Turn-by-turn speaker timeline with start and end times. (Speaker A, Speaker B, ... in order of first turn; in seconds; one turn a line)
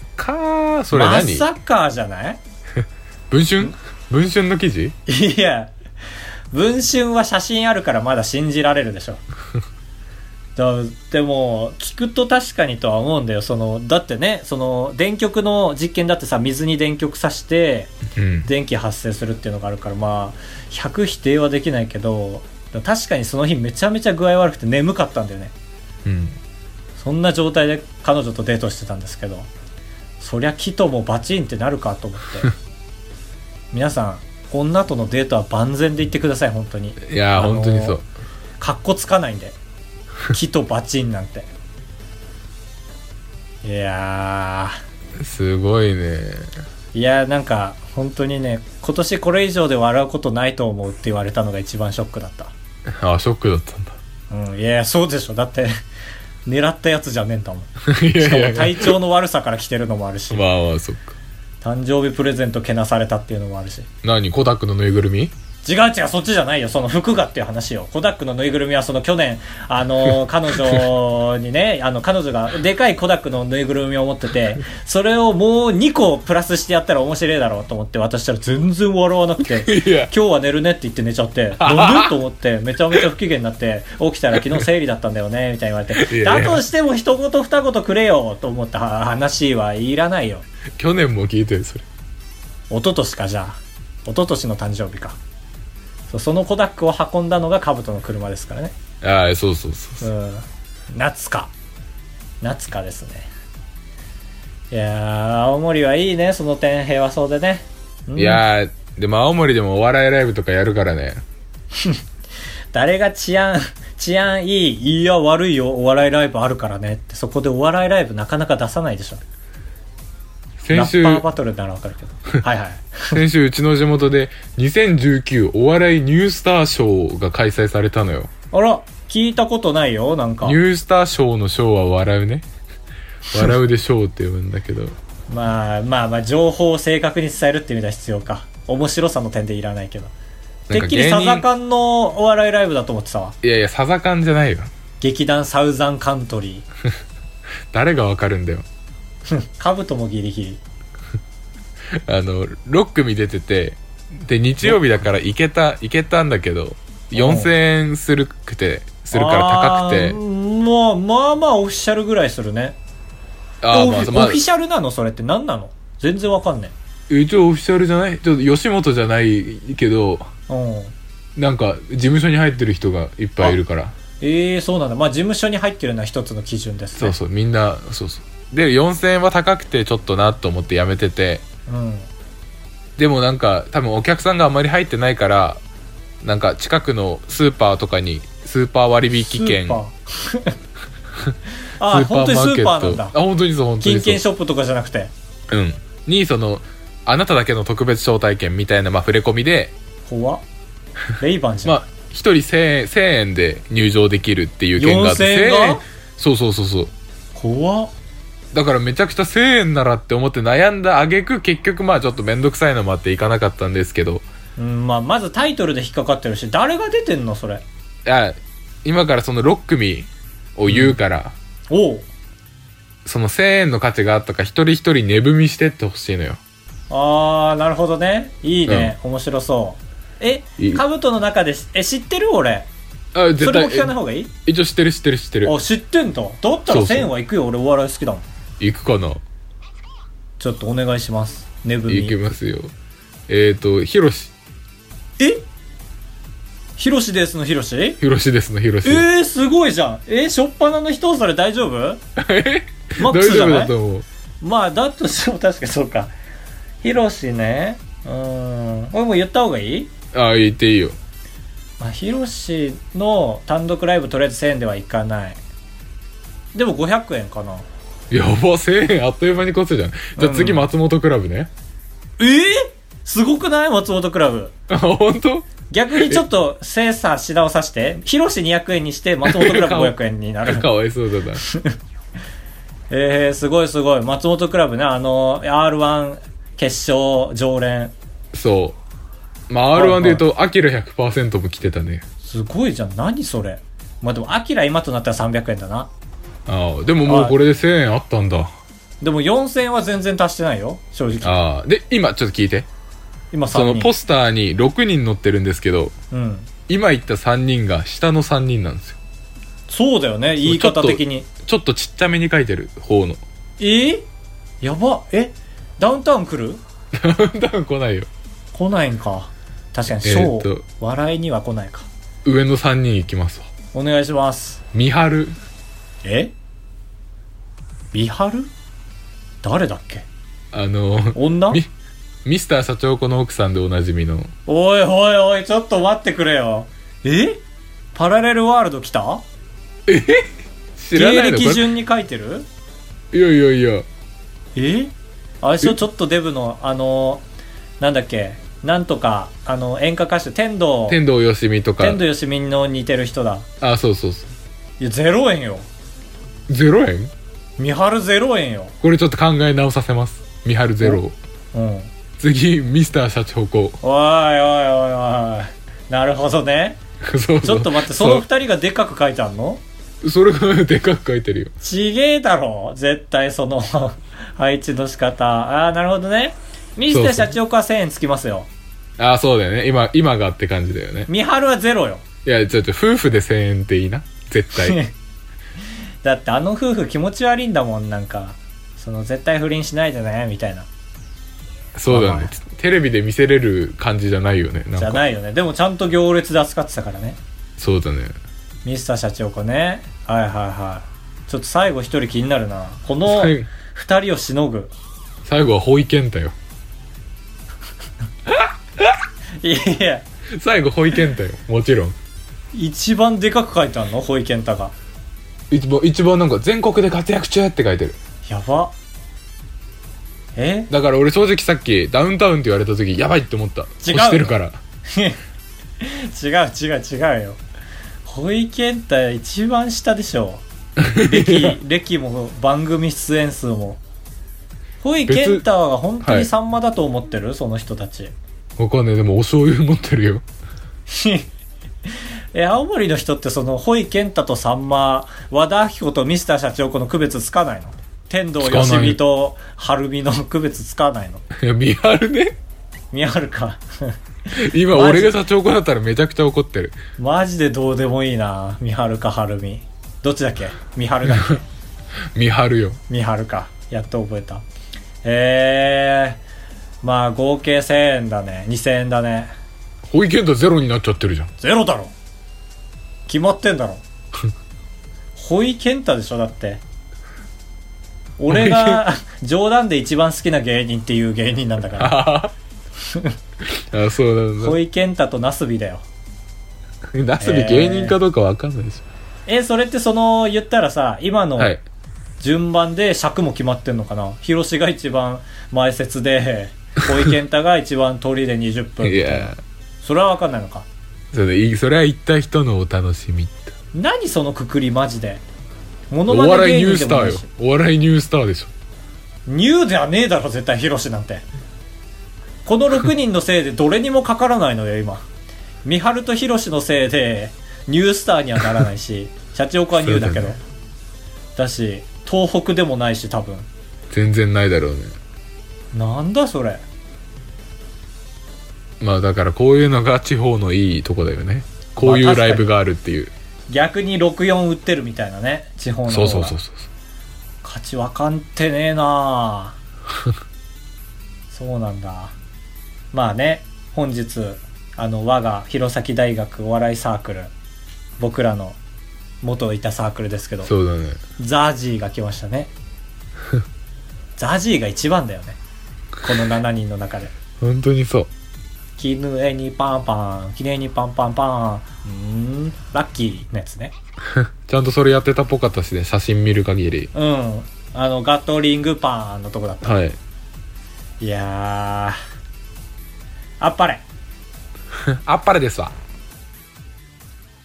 Speaker A: 0.2-1.5
Speaker B: 0.9-2.4
Speaker A: 3.3-4.9
Speaker B: 5.1-5.7
Speaker B: 6.5-9.2
Speaker B: 10.6-17.9
Speaker A: 18.1-18.5
Speaker B: 18.4-25.5
Speaker A: 26.0-26.4
Speaker B: 27.0-29.5
Speaker B: 30.2-32.5
Speaker B: 33.7-38.0
Speaker A: 37.0-38.0
Speaker B: 38.6-39.5
Speaker B: 40.3-41.5
Speaker B: 43.6-44.8
Speaker A: 45.2-46.5
Speaker B: 46.9-52.5
Speaker A: 52.9-54.0
Speaker B: 54.3-55.7
Speaker B: 56.5-60.4
Speaker A: 57.8-58.9
Speaker A: 60.3-61.1
Speaker B: 61.6-63.9
Speaker A: 64.0-65.3
Speaker B: 65.6-90.5
Speaker A: 79.6-80.1
Speaker A: 81.6-82.2
Speaker A: 86.0-86.6
Speaker A: 90.8-91.8
Speaker B: 92.7-95.2
Speaker B: 96.1-98.7
Speaker A: 99.0-100.1
Speaker B: 100.0-101.5
Speaker B: 102.4-103.3
Speaker B: 104.7-108.4
Speaker A: 108.2-111.2
Speaker B: 111.7-112.0
Speaker B: 112.7-119.2
Speaker A: 120.6-121.2
Speaker B: 120.7-123.2
Speaker A: 123.1-128.3
Speaker B: 128.5-130.6
Speaker A: 130.4-132.5
Speaker A: 133.3-134.9
Speaker B: 135.3-140.1
Speaker A: 140.7-141.4
Speaker B: 140.7-143.3
Speaker A: 143.4-144.7
Speaker B: 145.0-146.7
Speaker A: 147.7-148.7
Speaker B: 149.3-150.6
Speaker A: 151.9-160.2
Speaker B: 157.1-157.5
Speaker B: 159.1-162.8
Speaker A: 163.6-164.4
Speaker B: 163.7-166.7
Speaker A: 167.1-170.3
Speaker B: 170.5-170.9
Speaker A: 171.3-173.9
Speaker B: 174.2-177.2
Speaker A: 177.0-181.4
Speaker B: 181.7-182.1
Speaker A: 183.0-185.6
Speaker A: 186.2-189.8
Speaker B: 189.2-190.6
Speaker B: 191.8-193.1
Speaker A: 191.9-194.2
Speaker B: 193.8-195.1
Speaker A: 195.5-199.7
Speaker B: 200.1-200.4
Speaker B: 201.2-201.8
Speaker A: 201.6-206.9
Speaker B: 204.8-205.8
Speaker B: 207.3-207.9
Speaker A: 208.5-214.2
Speaker B: 214.6-217.6
Speaker A: 218.0-221.3
Speaker B: 220.7-220.9
Speaker B: 221.7-222.1
Speaker A: 223.0-226.4
Speaker B: 226.9-232.7
Speaker A: 228.7-228.9
Speaker A: 230.6-230.8
Speaker A: 233.1-233.9
Speaker B: 233.4-234.3
Speaker A: 234.4-235.5
Speaker B: 235.4-238.2
Speaker A: 236.7-237.1
Speaker A: 238.6-239.2
Speaker B: 240.4-242.2
Speaker A: 241.9-242.7
Speaker A: 243.3-244.3
Speaker B: 245.2-245.4
Speaker B: 246.8-248.0
Speaker A: 248.0-249.1
Speaker B: 248.8-252.0
Speaker A: 252.2-254.1
Speaker B: 253.0-253.7
Speaker B: 254.4-256.1
Speaker B: 256.8-259.9
Speaker A: 260.1-261.0
Speaker B: 261.8-265.4
Speaker B: 266.5-267.7
Speaker A: 268.1-271.5
Speaker B: 270.2-270.7
Speaker B: 272.2-274.5
Speaker A: 274.7-276.2
Speaker B: 275.7-280.7
Speaker A: 279.2-281.4
Speaker B: 281.4-281.7
Speaker B: 282.9-287.9
Speaker A: 288.3-288.8
Speaker A: 289.5-292.0
Speaker B: 289.7-290.2
Speaker B: 292.2-295.9
Speaker A: 296.4-298.5
Speaker B: 297.1-297.4
Speaker B: 299.0-301.4
Speaker A: 301.2-302.7
Speaker B: 303.3-303.9
Speaker A: 303.5-305.9
Speaker B: 306.1-306.5
Speaker A: 306.7-309.0
Speaker B: 309.7-311.3
Speaker A: 310.4-313.2
Speaker B: 313.6-314.0
Speaker B: 314.6-316.6
Speaker A: 316.9-318.1
Speaker B: 318.5-321.9
Speaker A: 320.0-320.6
Speaker A: 322.2-323.5
Speaker B: 323.7-324.6
Speaker A: 324.7-325.4
Speaker B: 326.0-326.3
Speaker B: 327.9-328.5
Speaker B: 329.4-330.1
Speaker A: 330.5-331.7
Speaker B: 331.1-331.6
Speaker A: 332.2-334.3
Speaker B: 334.5-337.4
Speaker B: 337.9-339.2
Speaker A: 339.9-341.7
Speaker B: 340.9-342.5
Speaker A: 343.1-343.9
Speaker B: 344.6-347.2
Speaker B: 347.8-351.0
Speaker A: 350.9-352.0
Speaker B: 351.8-353.5
Speaker A: 353.6-354.3
Speaker B: 354.8-355.7
Speaker A: 356.5-357.1
Speaker B: 357.6-358.7
Speaker A: 358.8-361.1
Speaker B: 361.5-361.9
Speaker A: 362.2-363.8
Speaker B: 363.8-366.8
Speaker A: 367.0-368.2
Speaker B: 367.4-369.6
Speaker A: 370.0-371.5
Speaker B: 371.6-378.5
Speaker A: 376.9-377.3
Speaker A: 379.0-381.1
Speaker B: 381.1-382.0
Speaker A: 382.2-384.8
Speaker B: 384.5-384.9
Speaker B: 386.0-390.7
Speaker A: 391.7-395.0
Speaker B: 391.9-392.3
Speaker B: 394.8-397.2
Speaker A: 397.6-398.1
Speaker B: 398.6-404.7
Speaker A: 403.1-403.5
Speaker A: 405.2-406.3
Speaker B: 409.4-410.0
Speaker A: 410.3-411.9
Speaker B: 412.5-414.7
Speaker A: 415.5-418.0
Speaker B: 418.2-418.7
Speaker B: 420.3-420.7
Speaker A: 420.7-424.6
Speaker B: 423.8-424.3
Speaker B: 424.9-425.2
Speaker B: 425.8-427.4
Speaker B: 428.0-433.8
Speaker A: 430.8-431.6
Speaker B: 434.8-438.1
Speaker A: 435.1-435.4
Speaker A: 436.0-436.3
Speaker A: 438.6-440.2
Speaker B: 440.9-441.3
Speaker B: 442.3-451.2
Speaker A: 448.4-449.0
Speaker A: 451.3-452.4
Speaker B: 452.9-455.1
Speaker A: 454.3-456.8
Speaker B: 457.0-461.4
Speaker A: 462.1-462.8
Speaker B: 462.9-464.4
Speaker B: 465.0-466.2
Speaker B: 466.8-469.3
Speaker A: 469.9-471.3
Speaker B: 471.4-471.9
Speaker B: 473.1-473.8
Speaker B: 475.1-476.6
Speaker B: 478.2-482.0
Speaker A: 478.3-478.8
Speaker A: 481.8-482.3
Speaker B: 482.9-483.1
Speaker A: 483.4-484.6
Speaker B: 484.4-485.8
Speaker A: 486.9-488.8
Speaker B: 487.2-488.0
Speaker B: 489.3-491.5
Speaker B: 492.2-500.7
Speaker A: 498.8-499.4
Speaker A: 501.1-503.5
Speaker B: 503.7-505.2
Speaker B: 505.9-507.3
Speaker A: 506.1-508.5
Speaker B: 509.3-511.2
Speaker B: 512.4-515.0
Speaker B: 515.6-520.4
Speaker A: 519.7-520.3
Speaker B: 521.4-523.5
Speaker A: 523.9-524.9
Speaker B: 525.7-526.6
Speaker A: 528.8-533.1
Speaker B: 531.8-532.5
Speaker B: 533.5-536.4
Speaker A: 535.9-536.7
Speaker B: 537.4-539.6
Speaker B: 541.3-542.1
Speaker B: 542.9-547.3
Speaker B: 548.0-548.6
Speaker B: 549.2-550.5
Speaker A: 550.4-551.0
Speaker B: 551.2-552.5
Speaker B: 554.2-555.4
Speaker B: 556.0-557.1
Speaker A: 557.4-558.1
Speaker B: 558.8-563.7
Speaker A: 564.1-566.9
Speaker B: 566.9-569.7
Speaker A: 569.6-570.0
Speaker B: 571.0-572.0
Speaker B: 573.4-573.8
Speaker A: 574.7-575.7